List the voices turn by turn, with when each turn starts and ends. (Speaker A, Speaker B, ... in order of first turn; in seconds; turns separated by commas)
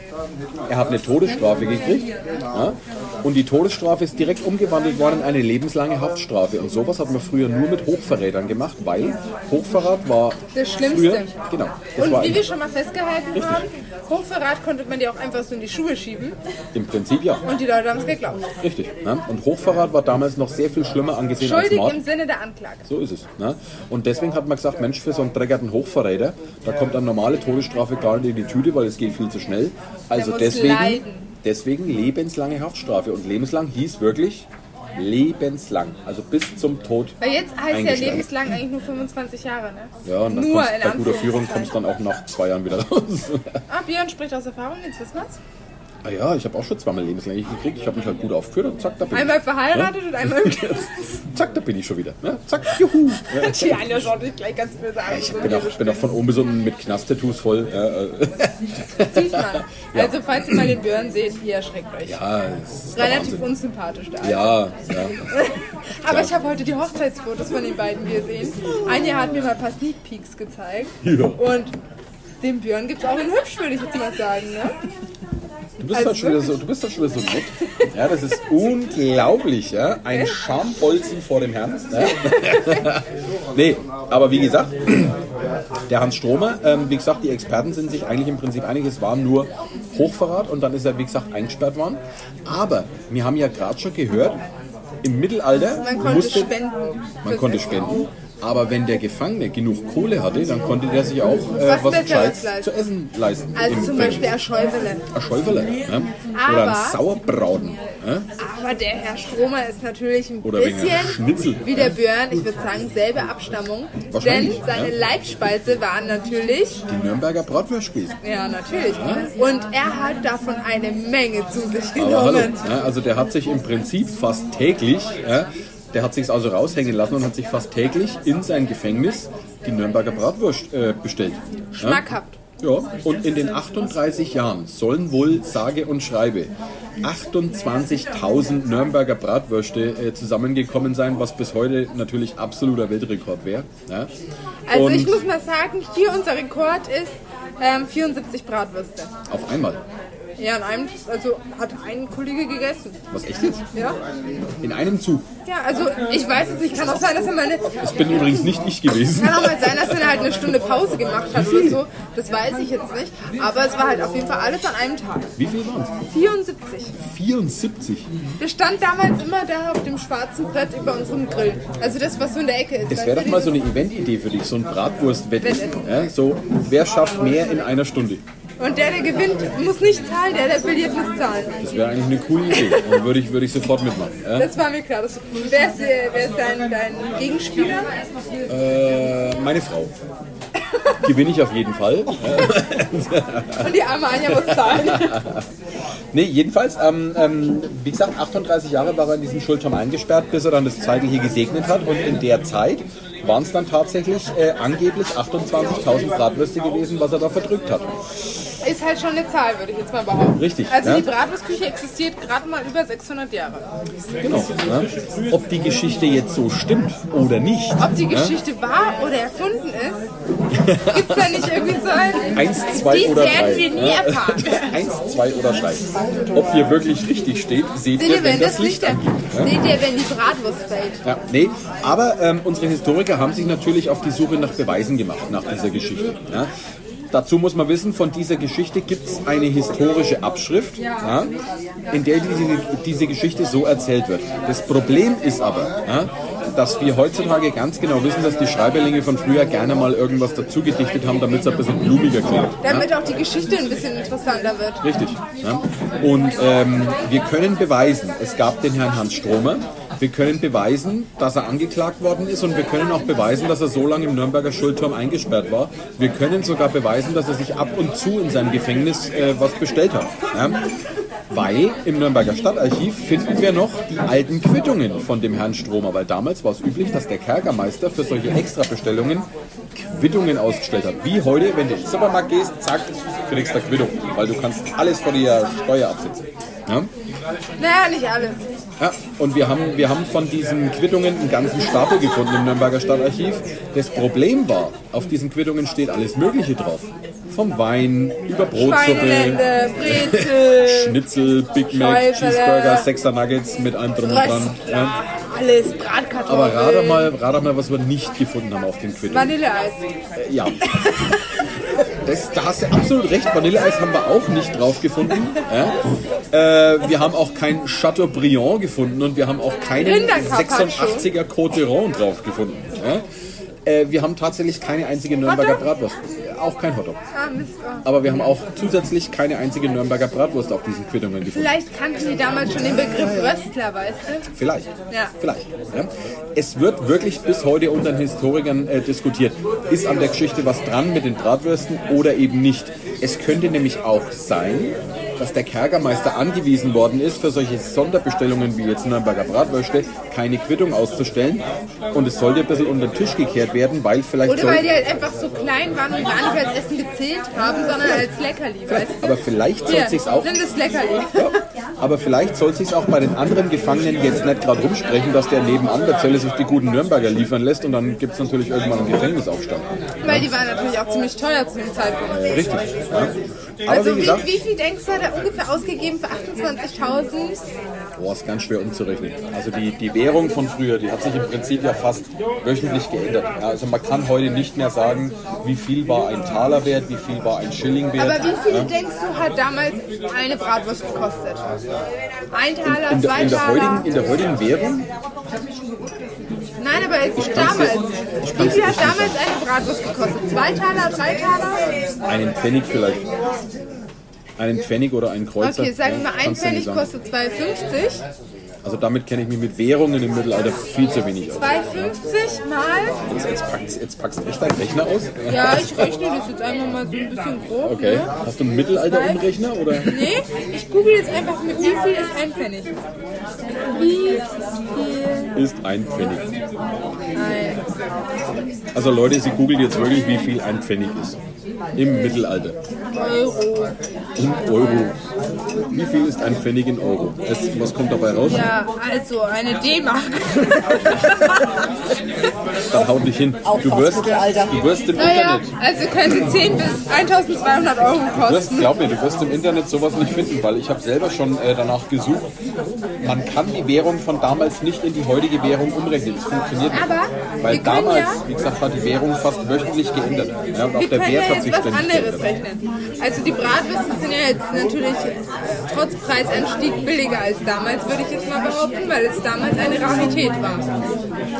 Speaker A: 0.7-12.4, Speaker B: 10.5-11.3, Speaker B: 11.9-16.4, Speaker A: 13.3-13.6, Speaker A: 16.7-17.4, Speaker B: 17.4-18.4, Speaker A: 18.6-22.0, Speaker B: 21.4-22.9, Speaker A: 22.9-37.2, Speaker B: 30.1-31.3, Speaker B: 37.2-41.7, Speaker A: 37.7-38.3, Speaker A: 40.0-43.6, Speaker B: 43.7-45.4, Speaker A: 46.0-54.0, Speaker B: 49.1-51.1, Speaker B: 53.2-56.1, Speaker A: 55.0-60.7, Speaker B: 59.0-62.2, Speaker A: 62.0-63.5, Speaker B: 62.9-64.6, Speaker A: 64.2-65.2, Speaker B: 65.3-71.7, Speaker A: 66.0-66.3, Speaker A: 71.0-71.4, Speaker B: 72.4-74.8, Speaker A: 75.8-85.2, Speaker B: 75.9-76.5, Speaker A: 85.9-94.4, Speaker A: 95.0-96.5, Speaker B: 95.8-98.0, Speaker A: 97.2-104.3, Speaker B: 101.6-102.7, Speaker B: 103.5-105.0, Speaker A: 105.1-108.3, Speaker B: 106.3-107.0, Speaker B: 108.4-116.8, Speaker A: 110.4-111.9, Speaker A: 114.1-114.9, Speaker A: 116.9-118.2, Speaker B: 118.2-122.6, Speaker A: 118.8-119.3, Speaker A: 122.0-132.1, Speaker B: 131.8-132.4, Speaker A: 132.6-144.1, Speaker B: 144.7-149.1, Speaker A: 144.7-145.2, Speaker A: 149.3-149.8, Speaker B: 150.4-153.0, Speaker A: 153.1-153.6, Speaker A: 154.6-155.3, Speaker B: 155.4-157.8, Speaker A: 157.8-160.0, Speaker B: 159.1-165.3, Speaker A: 161.3-161.8, Speaker A: 165.4-165.9, Speaker B: 166.1-166.9, Speaker A: 167.0-168.1, Speaker B: 168.4-173.6, Speaker A: 172.9-178.2, Speaker B: 175.4-175.8, Speaker B: 178.6-181.7, Speaker A: 181.6-184.5, Speaker B: 184.3-187.9, Speaker A: 188.5-189.9, Speaker A: 191.0-193.7, Speaker B: 193.6-195.3, Speaker A: 194.3-195.4, Speaker A: 196.1-207.9, Speaker B: 208.6-213.7, Speaker A: 210.3-211.1, Speaker A: 214.2-218.3, Speaker B: 217.8-220.0, Speaker A: 220.5-221.5, Speaker B: 220.8-224.8, Speaker A: 222.3-229.5, Speaker B: 227.9-231.0, Speaker A: 231.0-236.5, Speaker A: 237.1-241.3, Speaker A: 241.9-252.9, Speaker B: 252.6-254.8, Speaker A: 254.8-270.6, Speaker A: 271.3-286.9, Speaker B: 287.6-288.4, Speaker A: 288.8-305.0, Speaker B: 298.5-301.0, Speaker B: 301.7-302.9, Speaker B: 304.1-307.1, Speaker A: 306.3-309.3, Speaker B: 309.1-309.8, Speaker A: 310.1-310.7, Speaker B: 310.7-311.3, Speaker A: 312.0-315.8, Speaker A: 316.3-323.0, Speaker B: 319.8-321.1, Speaker A: 323.6-327.0, Speaker B: 325.2-325.6, Speaker B: 327.1-327.9, Speaker A: 327.8-331.6, Speaker B: 331.3-334.3, Speaker A: 333.0-333.3, Speaker A: 334.3-354.7, Speaker B: 354.2-359.1, Speaker A: 358.7-360.4, Speaker B: 359.6-361.4, Speaker A: 361.1-370.3, Speaker B: 370.0-372.6, Speaker A: 372.1-373.1, Speaker A: 373.6-374.3, Speaker B: 373.7-377.5, Speaker A: 378.0-388.7, Speaker B: 388.0-391.4, Speaker B: 392.3-393.9, Speaker A: 392.6-394.9, Speaker B: 396.6-401.7, Speaker A: 397.1-399.2, Speaker A: 402.1-403.1, Speaker A: 404.4-406.9, Speaker B: 405.4-408.0, Speaker A: 408.6-411.9, Speaker B: 411.4-413.0, Speaker A: 413.1-415.9, Speaker B: 415.3-418.1, Speaker A: 417.6-420.0, Speaker B: 418.8-419.2, Speaker B: 419.8-422.7, Speaker B: 423.7-425.3, Speaker A: 425.3-426.3, Speaker B: 427.1-427.6, Speaker A: 428.7-431.2, Speaker A: 431.7-432.6, Speaker B: 432.9-433.8, Speaker A: 434.2-434.9, Speaker A: 435.7-438.5, Speaker B: 438.2-441.7, Speaker A: 440.9-441.3, Speaker A: 442.7-445.5, Speaker B: 443.6-448.7, Speaker A: 448.1-452.3, Speaker A: 453.0-456.9, Speaker B: 456.7-458.2, Speaker A: 457.4-462.4, Speaker B: 460.7-470.7